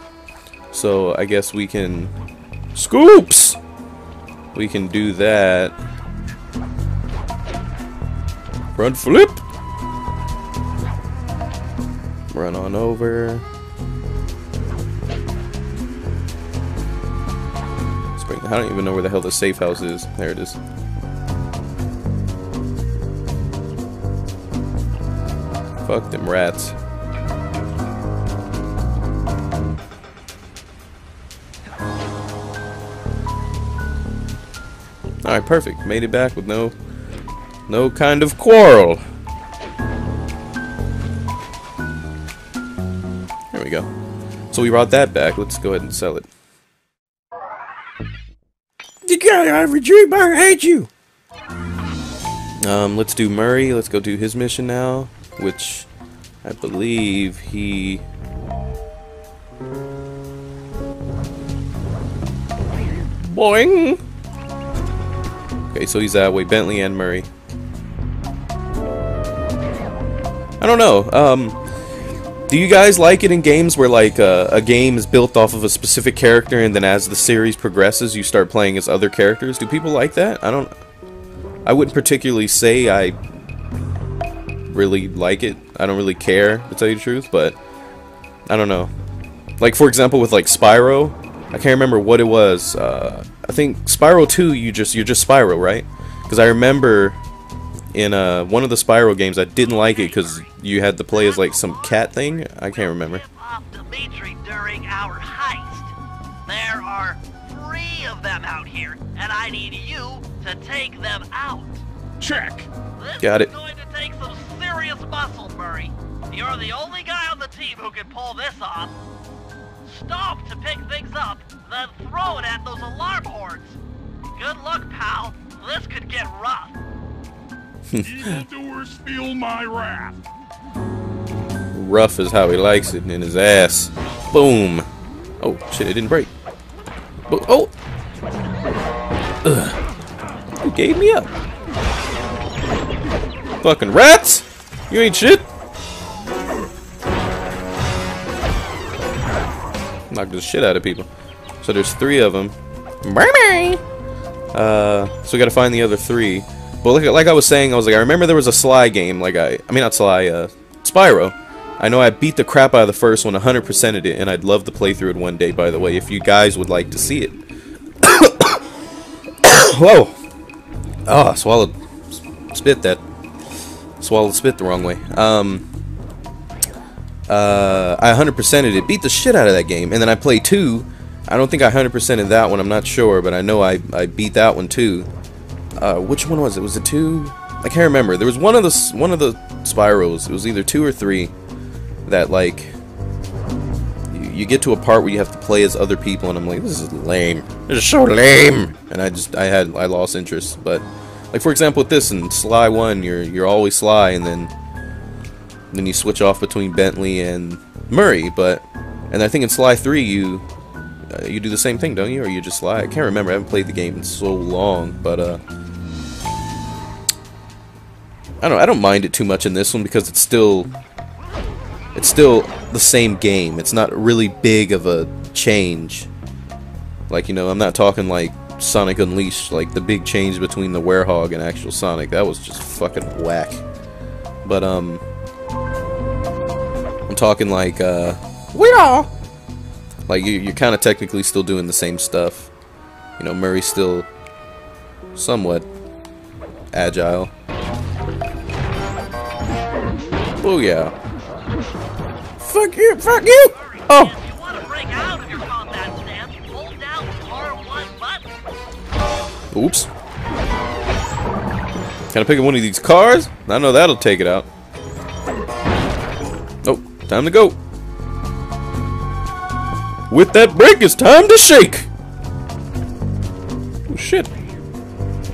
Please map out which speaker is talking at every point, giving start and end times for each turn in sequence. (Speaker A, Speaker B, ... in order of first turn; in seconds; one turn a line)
Speaker A: 0.7-2.1
Speaker A: 2.7-3.6
Speaker A: 4.5-5.7
Speaker A: 8.8-9.4
Speaker A: 12.3-13.4
Speaker A: 18.1-20.6
Speaker A: 25.8-26.7
Speaker A: 35.2-36.7
Speaker A: 37.7-39.0
Speaker A: 43.5-43.9
Speaker A: 44.5-46.3
Speaker A: 49.0-50.9
Speaker A: 52.6-55.9
Speaker A: 56.4-58.0
Speaker A: 63.2-64.0
Speaker A: 65.7-67.3
Speaker A: 70.6-71.6
Speaker A: 72.5-80.7
Speaker A: 81.6-83.2
Speaker A: 84.7-87.6
Speaker A: 88.5-88.9
Speaker A: 89.6-97.2
Speaker A: 97.9-103.2
Speaker B: 99.7-100.5
Speaker B: 101.1-105.9
Speaker B: 106.5-111.8
Speaker C: 112.2-112.7
Speaker B: 113.0-119.0
Speaker A: 113.2-113.5
Speaker B: 119.8-123.8
Speaker B: 124.3-126.8
Speaker A: 127.9-128.4
Speaker C: 128.0-130.2
Speaker A: 131.7-134.9
Speaker A: 135.4-136.3
Speaker A: 137.3-137.7
Speaker A: 139.4-139.8
Speaker A: 140.6-141.3
Speaker A: 143.6-145.5
Speaker A: 150.1-151.1
Speaker A: 151.6-153.8
Speaker A: 154.5-167.4
Speaker A: 168.0-168.7
Speaker A: 169.4-170.2
Speaker A: 171.1-171.7
Speaker A: 172.5-173.0
Speaker A: 174.0-175.6
Speaker A: 177.3-185.1
Speaker A: 185.8-191.3
Speaker A: 192.1-192.7
Speaker A: 194.1-204.5
Speaker A: 205.7-210.4
Speaker A: 211.1-215.4
Speaker A: 218.4-220.7
Speaker A: 221.9-226.1
Speaker A: 227.1-233.6
Speaker A: 234.4-235.0
Speaker A: 237.1-239.1
Speaker A: 240.1-242.5
Speaker A: 243.2-244.1
Speaker A: 245.1-245.7
Speaker A: 246.7-247.3
Speaker A: 250.4-250.9
Speaker A: 252.4-254.1
Speaker B: 253.5-258.3
Speaker A: 259.5-259.9
Speaker A: 262.1-264.5
Speaker A: 266.6-267.6
Speaker A: 270.1-271.9
Speaker A: 273.9-274.3